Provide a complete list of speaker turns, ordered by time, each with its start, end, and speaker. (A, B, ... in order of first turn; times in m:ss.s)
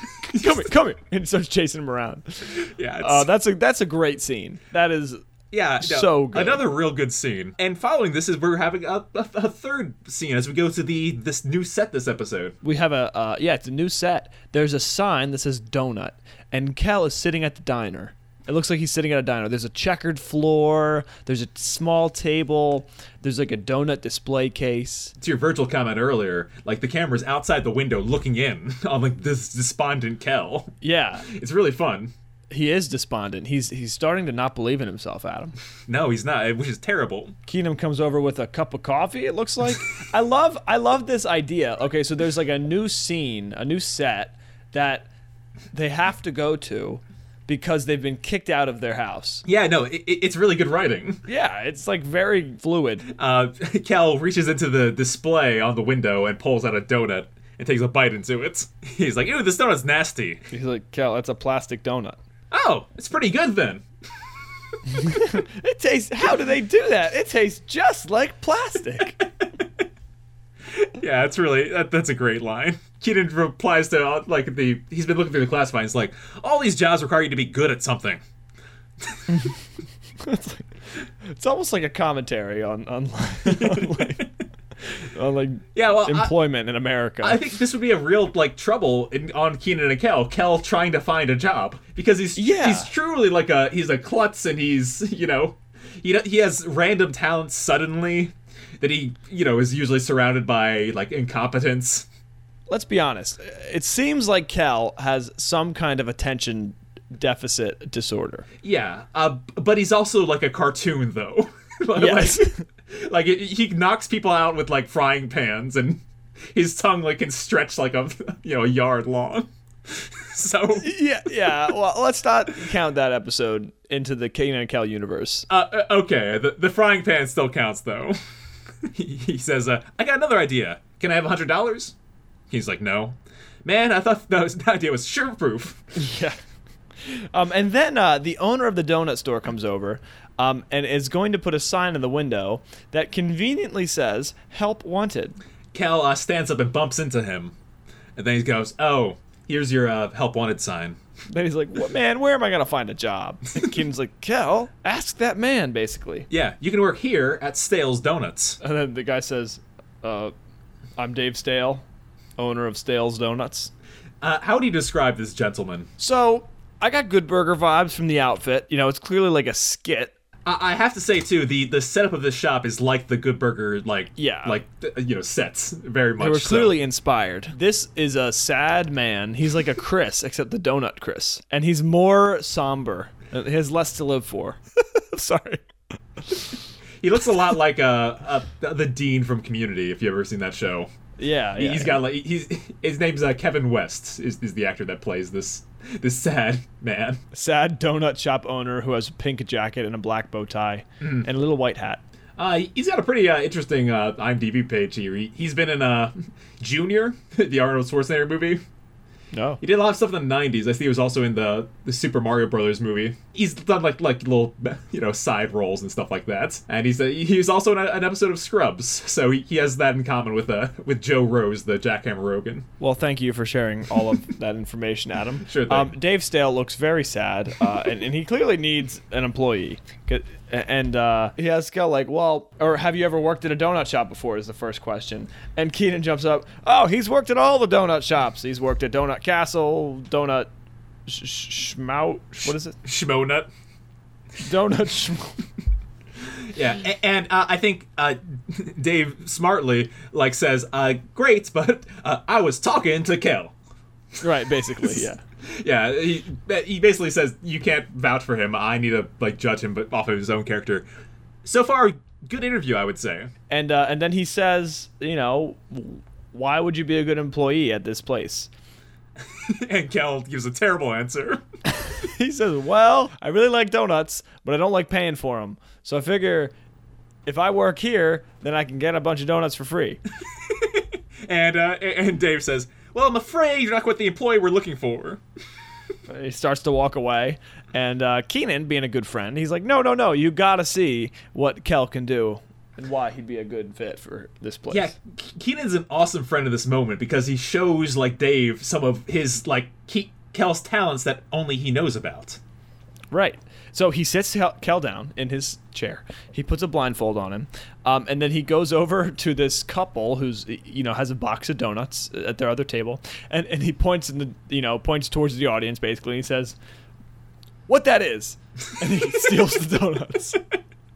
0:00.2-0:05.2 A
0:00.3-0:00.7 B
0:02.5-0:03.3 B
0:05.5-0:12.6 B
0:05.8-0:06.6 A
0:12.6-0:25.1 A
0:25.2-0:30.7 B
0:30.8-0:31.3 A
0:31.2-0:32.1 B
0:32.5-0:35.6 A
0:35.9-0:37.4 B
0:37.5-0:45.1 A
0:45.7-0:49.4 A
0:49.5-0:51.2 B
0:51.3-0:53.1 A
0:53.1-1:00.4 B
1:00.5-1:02.2 A
1:02.5-1:03.8 B
1:04.9-1:09.2 A
1:10.7-1:18.2 B
1:20.2-1:20.7 A
1:21.3-1:24.3 A
1:23.4-1:24.3 B
1:25.1-1:27.4 A
1:25.8-1:26.3 B
1:27.2-1:42.1 B
1:32.4-1:32.9 A
1:42.7-1:48.5 A
1:48.6-2:00.9 B
1:52.0-1:52.6 A
2:00.8-2:05.5 A
2:05.5-2:08.2 B
2:08.8-2:12.0 B
2:12.5-2:15.8 B
2:16.0-2:16.4 A
2:17.0-2:25.4 A
2:25.7-2:27.5 B
2:28.2-2:31.0 B
2:31.3-2:36.3 A
2:36.3-2:38.6 B
2:38.6-2:40.3 A
2:41.0-2:41.8 A
2:42.4-2:43.7 A
2:44.2-2:45.9 B
2:46.0-2:50.1 A
2:50.4-2:56.8 B
2:54.2-2:54.6 A
2:56.2-3:05.6 A
3:07.0-3:10.9 B
3:11.2-3:12.0 A
3:11.6-3:17.2 B
3:17.3-3:22.0 A
3:22.4-3:28.6 B
3:29.3-3:29.6 A
3:29.6-3:42.7 B
3:42.8-4:00.5 A
3:45.4-3:45.9 B
4:01.1-4:02.8 A
4:02.8-4:03.5 B
4:04.4-4:05.4 A
4:06.4-4:13.5 B
4:14.2-4:15.2 A
4:14.8-4:20.9 B
4:21.4-4:23.3 B
4:23.5-4:28.5 A
4:29.4-4:31.4 B
4:31.8-4:36.5 A
4:37.3-4:40.0 A
4:40.4-4:45.2 B
4:46.1-4:54.9 A
4:54.7-5:02.4 B
5:03.1-5:16.6 A
5:17.7-5:20.4 A